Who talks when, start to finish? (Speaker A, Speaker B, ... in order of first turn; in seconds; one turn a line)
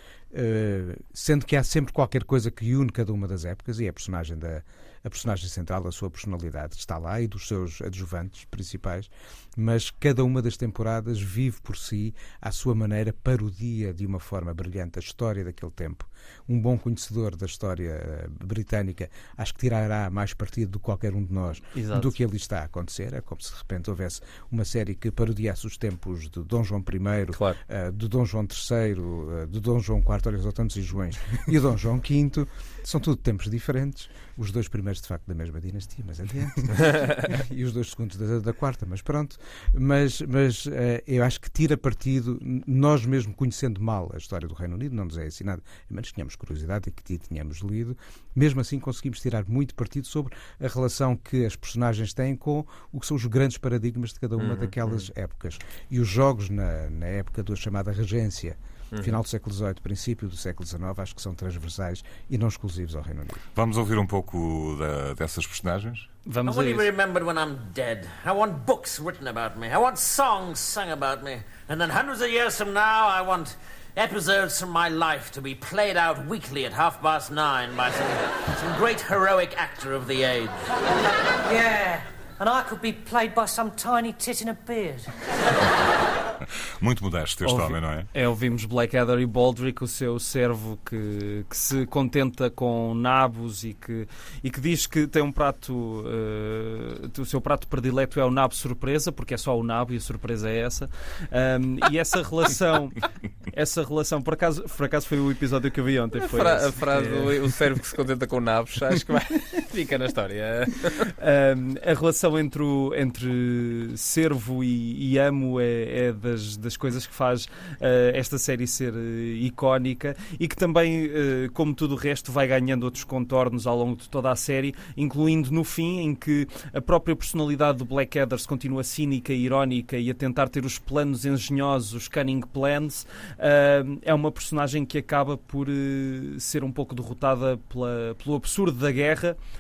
Speaker A: 0.3-63.4
Speaker B: 21.8-22.1
Speaker C: 27.3-27.6
Speaker C: 54.4-55.1
Speaker C: 58.9-59.2
Speaker D: 63.5-66.1
Speaker B: 66.3-66.9
Speaker E: 66.5-80.6
Speaker F: 81.4-85.1
Speaker D: 86.8-88.1
Speaker B: 87.5-107.3
Speaker C: 106.2-111.1
Speaker B: 111.1-139.4